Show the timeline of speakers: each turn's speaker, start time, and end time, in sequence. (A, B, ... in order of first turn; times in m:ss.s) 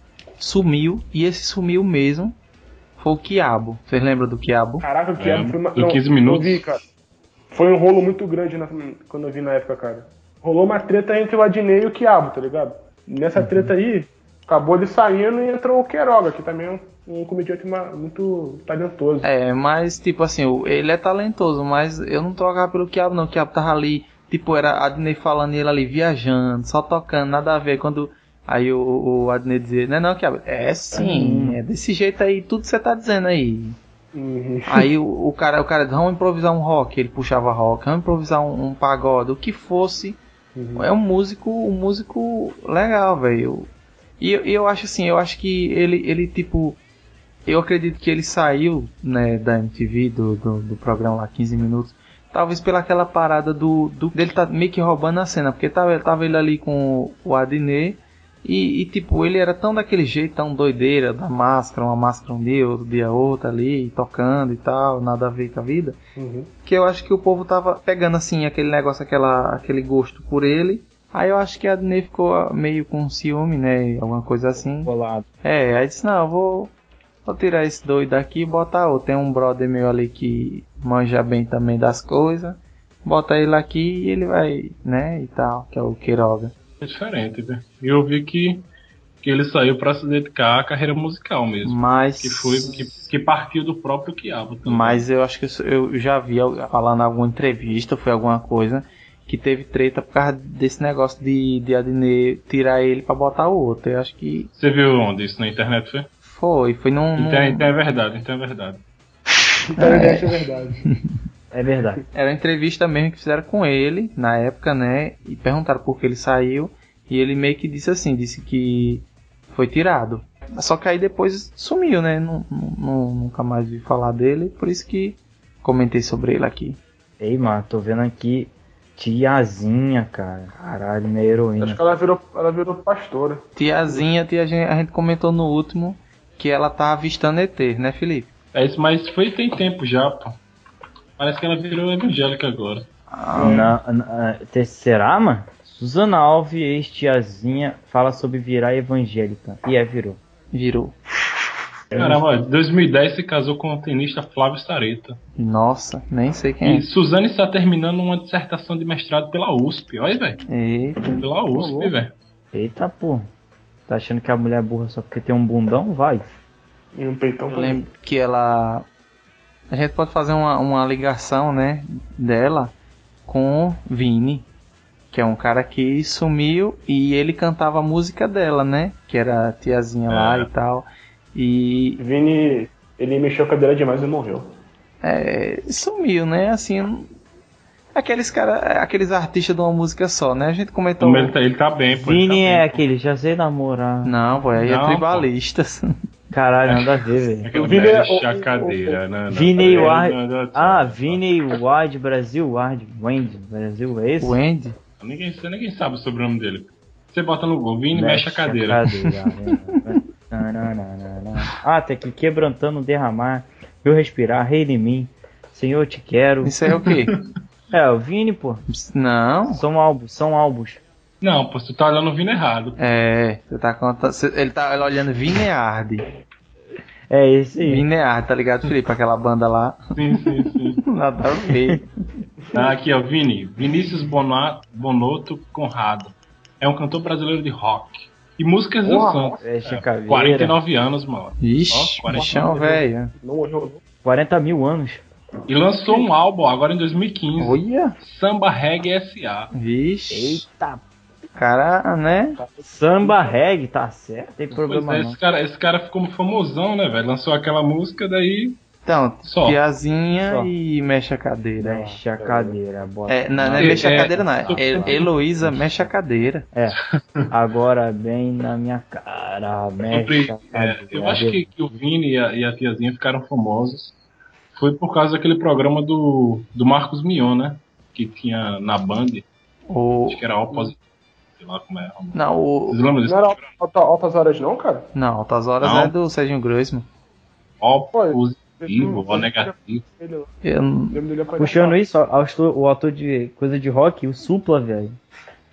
0:00.4-0:02.4 A
0:03.0-0:04.8 A
0:04.8-0:06.8 B
0:05.2-0:06.6 C
0:07.5-0:19.2 B
0:13.4-0:13.7 D
0:19.2-0:33.8 A
0:30.9-0:31.6 D
0:34.1-0:34.9 B
0:34.7-0:40.2 A
0:40.6-0:40.9 B
0:40.8-0:46.8 A
0:47.4-1:06.0 A
1:06.2-1:06.5 B
1:06.6-1:14.9 A
1:14.8-1:15.2 D
1:15.4-1:16.7 A
1:17.2-1:26.5 A
1:26.8-1:28.6 C
1:29.2-1:35.0 C
1:31.6-1:32.7 A
1:34.6-1:44.5 A
1:44.6-1:46.1 C
1:46.3-1:47.7 A
1:47.2-1:48.8 C
1:49.7-1:50.8 B
1:49.8-1:50.3 A
1:51.5-1:52.0 D
1:52.1-2:06.8 A
2:07.2-2:11.8 D
2:11.6-2:14.0 B
2:13.6-2:18.3 A
2:18.5-2:20.4 C
2:21.2-2:22.8 C
2:23.1-2:23.6 A
2:23.3-2:23.7 B
2:23.4-2:30.2 D
2:30.5-2:31.0 A
2:31.9-2:32.2 B
2:31.9-2:35.2 C
2:35.4-2:36.8 A
2:36.6-2:40.4 C
2:40.5-2:41.0 A
2:41.2-2:42.1 C
2:41.5-2:41.9 B
2:42.5-2:43.3 D
2:43.9-2:46.2 D
2:47.0-2:47.8 B
2:47.5-2:48.8 A
2:49.7-2:52.7 A
2:53.3-2:54.5 A
2:55.1-3:02.0 A
3:00.1-3:00.5 C
3:02.0-3:04.5 B
3:05.0-3:07.1 A
3:07.9-3:11.3 A
3:11.0-3:12.8 C
3:11.9-3:14.1 D
3:14.0-3:15.9 A
3:14.6-3:15.3 C
3:16.3-3:17.8 D
3:16.7-3:21.2 C
3:17.6-3:19.0 B
3:19.3-3:24.4 D
3:24.2-3:24.8 A
3:25.0-3:28.8 C
3:27.9-3:36.5 D
3:36.4-3:37.1 A
3:36.8-3:37.2 C
3:37.7-3:38.6 D
3:38.7-3:39.6 A
3:39.5-3:40.8 D
3:41.2-3:42.8 C
3:42.8-3:46.0 A
3:47.1-3:47.8 D
3:47.6-3:49.8 A
3:49.9-3:50.8 C
3:50.8-3:51.8 A
3:52.5-4:02.5 C
3:58.8-3:59.4 B
3:59.4-4:00.6 D
4:01.4-4:03.1 A
4:02.1-4:03.8 B
4:04.0-4:05.0 D
4:05.5-4:09.5 C
4:07.4-4:07.9 A
4:09.5-4:10.4 A
4:10.1-4:10.8 D
4:11.4-4:12.4 A
4:12.4-4:13.4 B
4:12.6-4:15.2 D
4:14.5-4:18.6 C
4:18.8-4:22.0 A
4:19.2-4:19.6 C
4:20.2-4:20.5 D
4:21.6-4:25.9 D
4:22.2-4:22.6 B
4:23.1-4:26.4 A
4:23.6-4:25.0 C
4:26.5-4:31.6 D
4:29.9-4:33.9 C
4:34.5-4:39.2 C
4:39.7-4:40.2 A
4:40.1-4:40.8 C
4:41.4-4:43.4 C
4:42.1-4:42.8 A
4:43.0-4:44.9 B
4:44.9-4:46.9 A
4:45.6-4:45.9 C
4:47.6-4:49.8 C
4:47.9-4:50.3 B
4:50.4-4:51.0 A
4:50.9-4:51.8 B
4:51.4-4:55.0 D